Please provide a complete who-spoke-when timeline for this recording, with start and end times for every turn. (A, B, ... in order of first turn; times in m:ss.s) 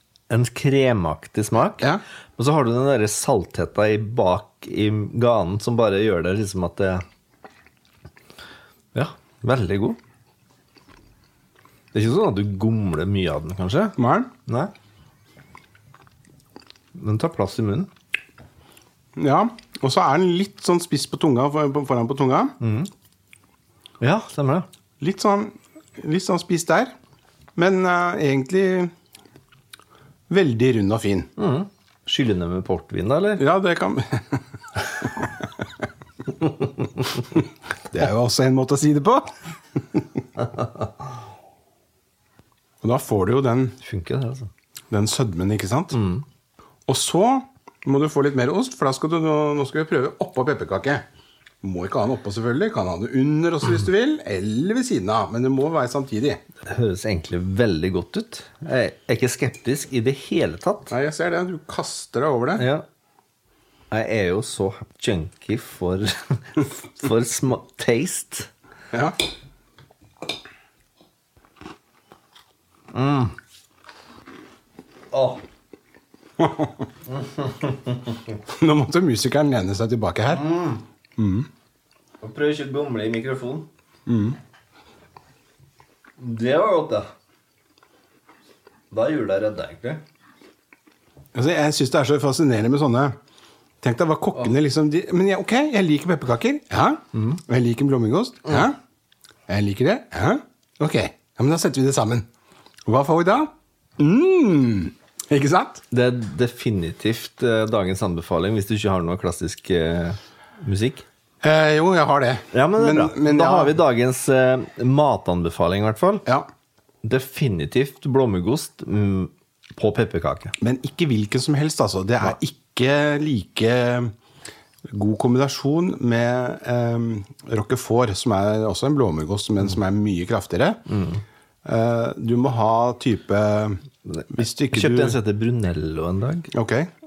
0:00.3-0:07.0 A
0:08.9-0:10.0 A
0:11.9-0:14.7 A
0:14.0-0:14.3 B
0:17.0-0:17.9 A
0:19.2-0:22.6 B
0:22.6-0:22.9 A
0:24.0-0:24.7 A
0:25.0-0:26.9 B
0:27.6-0:28.9 B
0:30.3-0:31.3 B
0:31.4-0:33.4 A
0:33.4-0:35.6 B
0:37.3-0:40.1 B
0:42.8-0:43.8 B
0:43.8-0:44.5 A
0:44.9-0:46.0 B
0:45.9-0:46.2 A
0:46.9-0:51.0 B
0:51.6-0:56.4 B
0:56.7-1:00.9 A
1:00.9-1:02.7 B
1:02.6-1:02.8 A
1:03.9-1:08.5 A
1:08.9-1:09.2 B
1:12.9-1:13.4 A
1:15.1-1:15.4 A
1:16.4-1:16.8 B
1:17.1-1:18.4 A
1:18.5-1:20.5 B
1:20.3-1:20.8 A
1:21.2-1:21.5 B
1:22.2-1:23.7 A
1:24.1-1:24.4 B
1:26.2-1:27.1 A
1:28.9-1:30.0 A
1:31.3-1:33.2 B
1:33.8-1:38.8 B
1:37.1-1:37.4 A
1:39.5-1:42.3 B
1:42.9-1:45.8 B
1:45.9-1:51.0 A
1:51.4-1:53.8 B
1:52.5-1:56.2 A
1:57.0-2:00.5 A
2:00.6-2:04.1 B
2:04.9-2:10.9 B
2:10.9-2:11.2 A
2:11.6-2:15.2 B
2:14.1-2:16.5 A
2:16.5-2:16.9 B